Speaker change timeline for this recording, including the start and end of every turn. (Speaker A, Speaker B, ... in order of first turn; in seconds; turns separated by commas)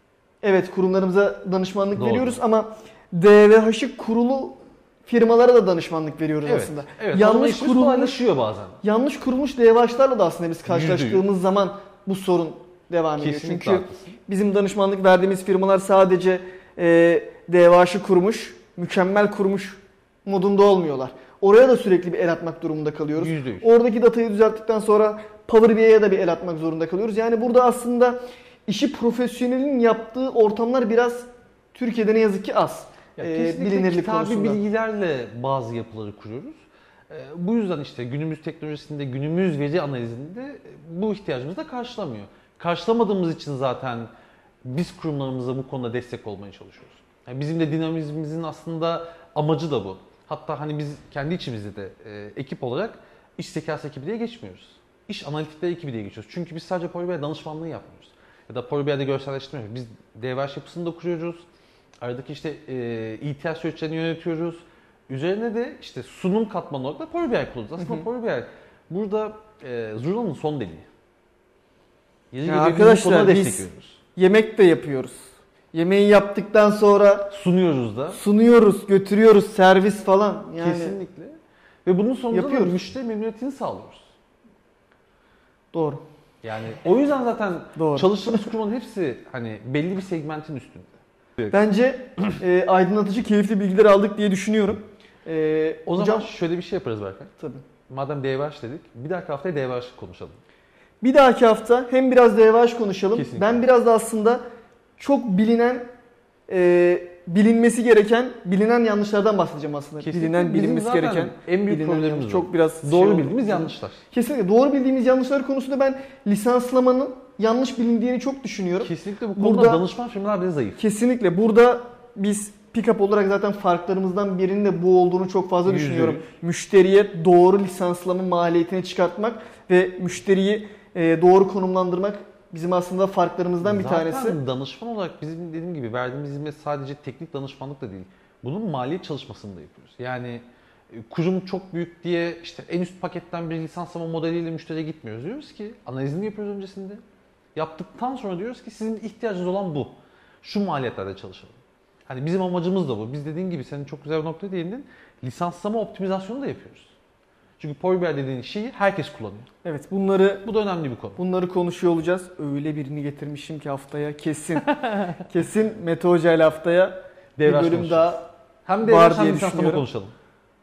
Speaker A: 0.4-8.2, Speaker B: 1.9-2.4, Speaker B: 6.5-8.8, Speaker A: 8.8-34.6, Speaker B: 10.7-11.2, Speaker B: 13.2-14.2, Speaker B: 23.2-23.7, Speaker B: 33.2-44.1, Speaker B: 44.6-61.4, Speaker B: 62.0-70.9, Speaker A: 67.8-68.0, Speaker B: 72.3-74.0, Speaker A: 72.5-77.3, Speaker B: 77.3-78.2, Speaker A: 78.1-81.0, Speaker B: 80.6-84.0, Speaker A: 82.3-82.8, Speaker A: 85.7-86.0, Speaker B: 86.4-91.5, Speaker A: 87.8-88.5, Speaker A: 91.5-96.3, Speaker B: 95.9-97.3, Speaker A: 97.4-97.7, Speaker B: 97.9-100.4, Speaker A: 101.0-104.4, Speaker B: 103.1-103.6, Speaker A: 105.0-105.9, Speaker A: 106.5-119.8, Speaker B: 110.0-114.0, Speaker B: 118.8-120.8, Speaker A: 120.8-134.4, Speaker B: 125.7-126.3, Speaker B: 133.6-147.0, Speaker B: 147.6-151.6, Speaker B: 152.1-156.9, Speaker B: 157.6-159.5, Speaker A: 159.6-160.5, Speaker B: 160.4-161.2, Speaker A: 161.2-168.2, Speaker B: 164.7-165.1, Speaker B: 167.4-170.1, Speaker A: 168.8-169.8